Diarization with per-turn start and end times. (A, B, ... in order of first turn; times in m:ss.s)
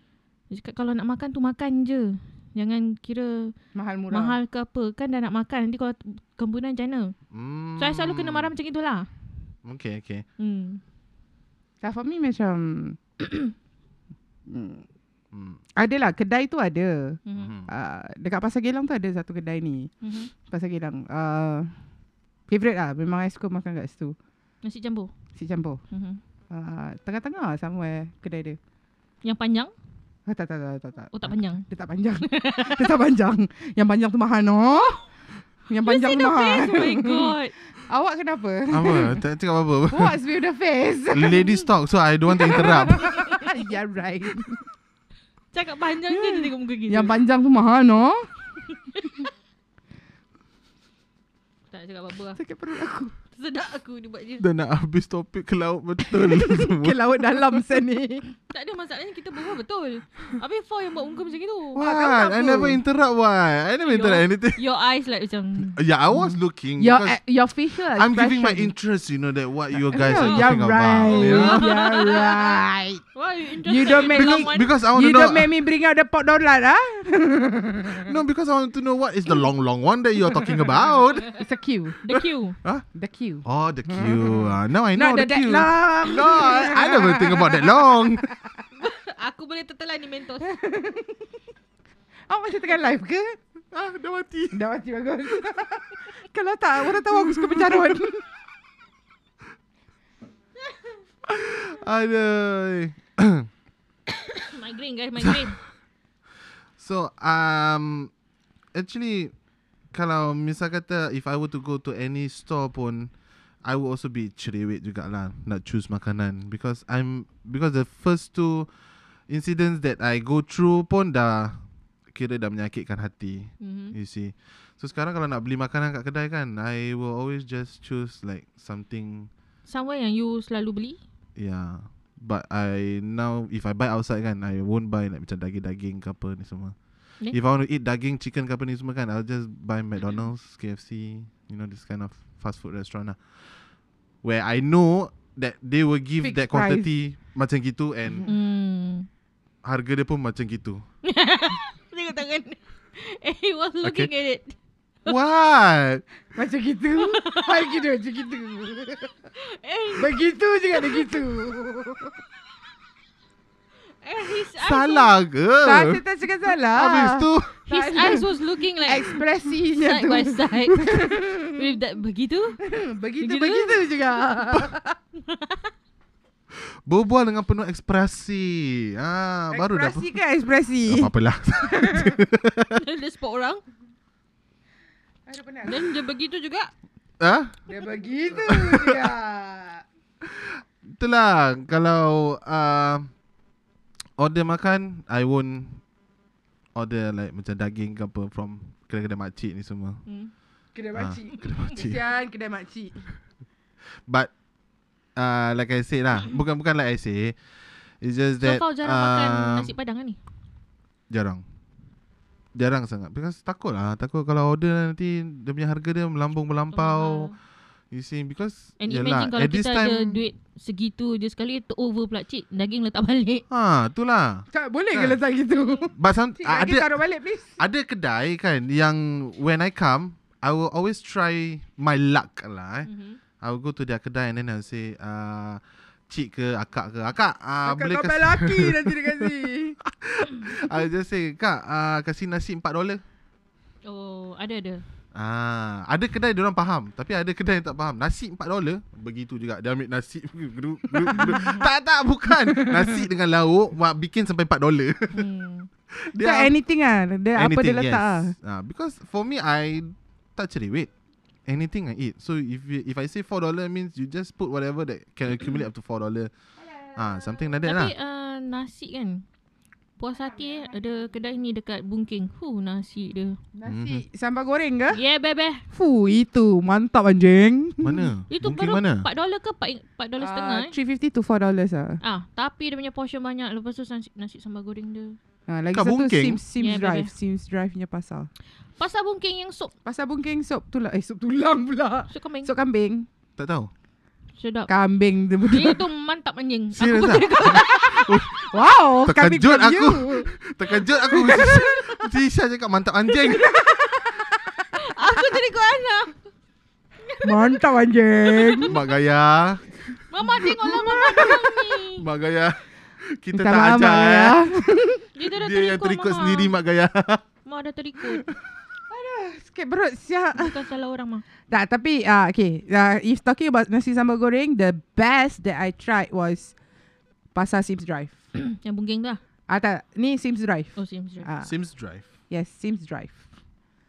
0:00.5-0:03.5 A
0:03.8-0:04.4 B
0:04.1-0:07.2 A
0:07.3-0:08.5 C
0:07.8-0:09.1 A
0:09.6-0:10.2 C
0:10.4-0:10.8 A
0:11.8-0:13.0 B
0:14.5-0:14.8 B
0:15.3-0:15.6 C
0:15.8-0:19.9 B
0:17.3-0:17.5 A
0:17.4-0:17.7 C
0:20.0-0:20.3 A
0:20.5-0:21.7 B
0:22.5-0:24.2 B
0:24.6-0:25.1 A
0:25.4-0:25.8 B
0:25.9-0:26.2 A
0:26.5-0:28.6 B
0:29.2-0:29.7 A
0:30.3-0:35.0 B
0:31.1-0:31.6 A
0:32.2-0:33.0 A
0:35.7-0:37.4 B
0:35.8-0:37.5 A
0:37.9-0:39.2 B
0:38.7-0:40.2 C
0:39.9-0:41.6 B
0:41.1-0:43.2 C
0:42.3-0:44.6 B
0:45.5-0:47.2 A
0:46.1-0:48.3 B
0:51.7-0:52.4 A
0:52.4-0:53.1 B
0:53.3-0:54.4 A
0:54.4-0:57.0 C
0:56.0-0:58.3 B
0:58.5-1:01.8 A
1:01.7-1:04.6 C
1:01.8-1:02.8 B
1:03.8-1:05.8 A
1:05.7-1:07.2 C
1:06.8-1:08.7 B
1:07.9-1:11.7 C
1:09.9-1:13.0 B
1:10.1-1:10.5 A
1:11.1-1:12.6 A
1:13.2-1:14.7 A
1:13.6-1:18.1 B
1:14.1-1:15.5 C
1:18.0-1:21.4 C
1:21.3-1:22.0 B
1:22.0-1:22.6 A
1:22.1-1:22.8 C
1:22.9-1:28.3 B
1:23.4-1:28.3 C
1:28.8-1:30.5 A
1:30.4-1:31.2 B
1:32.3-1:33.4 B
1:33.7-1:34.6 C
1:34.5-1:38.2 B
1:37.1-1:37.9 C
1:41.2-1:43.5 C
1:44.4-1:45.6 A
1:45.2-1:45.5 C
1:46.8-1:48.1 C
1:48.7-1:49.3 C
1:49.9-1:53.1 C
1:53.6-1:58.7 C
1:59.3-2:01.6 C
2:02.1-2:09.3 C
2:03.6-2:04.0 A
2:09.7-2:11.0 A
2:11.4-2:16.8 C
2:17.3-2:23.2 C
2:24.2-2:28.3 C
2:26.2-2:26.9 B
2:28.3-2:29.1 A
2:29.6-2:30.8 C
2:31.0-2:34.6 A
2:33.8-2:34.1 C
2:35.1-2:36.0 C
2:36.4-2:39.1 B
2:37.0-2:37.8 A
2:39.4-2:40.2 A
2:40.0-2:42.1 B
2:40.8-2:41.0 A
2:44.0-2:45.1 A
2:44.6-2:46.0 C
2:45.6-2:48.3 B
2:46.7-2:47.6 C
2:47.7-2:52.6 A
2:48.8-2:51.6 B
2:52.7-2:55.0 B
2:53.2-2:54.0 A
2:55.3-2:55.7 A
2:56.6-3:00.1 C
2:59.5-3:02.2 B
3:00.9-3:02.8 C
3:02.8-3:03.6 A
3:05.3-3:05.9 B
3:05.6-3:06.7 A
3:07.2-3:07.6 C
3:07.7-3:09.8 B
3:08.3-3:09.0 C
3:10.2-3:13.1 C
3:14.2-3:15.8 C
3:16.8-3:20.0 C
3:20.8-3:23.1 B
3:21.0-3:22.0 C
3:24.1-3:24.3 C
3:25.2-3:27.4 C
3:28.0-3:29.7 C
3:28.4-3:30.2 A
3:31.1-3:31.4 C
3:32.6-3:37.3 C
3:36.7-3:37.3 A
3:37.9-3:40.2 C
3:38.8-3:43.4 A
3:43.5-3:45.2 C
3:44.5-3:47.6 B
3:46.0-3:47.0 C
3:47.6-3:52.9 C
3:52.9-3:53.2 A
3:53.4-3:59.3 C
3:57.6-3:59.8 B
3:59.8-4:03.0 C
4:03.8-4:04.8 A
4:05.1-4:15.3 C
4:12.6-4:12.8 B
4:15.1-4:15.7 A
4:16.0-4:16.5 C
4:16.2-4:18.3 B
4:17.4-4:20.9 C
4:21.5-4:26.3 C
4:27.0-4:27.9 C
4:27.6-4:29.2 A
4:30.0-4:33.4 A
4:33.6-4:35.0 B
4:33.7-4:34.0 C
4:34.9-4:35.6 A
4:35.7-4:38.1 B
4:37.8-4:39.1 C
4:38.3-4:40.7 A
4:40.2-4:42.0 B
4:42.0-4:45.2 A
4:45.5-4:48.3 B
4:45.7-4:46.4 C
4:46.6-4:47.1 A
4:48.8-4:49.7 A
4:49.8-4:53.1 B
4:52.1-4:52.5 A
4:53.4-4:53.7 C
4:54.4-4:54.7 A
4:54.7-4:55.8 B
4:55.5-4:58.1 A
4:56.7-4:58.4 C
4:57.4-5:00.3 B
4:59.0-5:03.5 C
5:01.1-5:01.8 B
5:03.4-5:04.5 B
5:04.7-5:06.2 A
5:07.0-5:07.6 A
5:07.2-5:08.7 B
5:08.3-5:08.7 A
5:08.7-5:09.7 C
5:10.1-5:12.0 A
5:10.7-5:11.6 B
5:12.0-5:14.4 C
5:13.3-5:15.1 B
5:15.2-5:16.5 A
5:15.3-5:17.2 C
5:17.5-5:18.2 A
5:18.9-5:20.5 B
5:20.4-5:21.2 A
5:21.5-5:26.5 B
5:27.4-5:28.2 B
5:28.4-5:29.2 A
5:29.5-5:31.5 B
5:30.8-5:31.3 A
5:31.4-5:32.0 C
5:32.3-5:33.2 B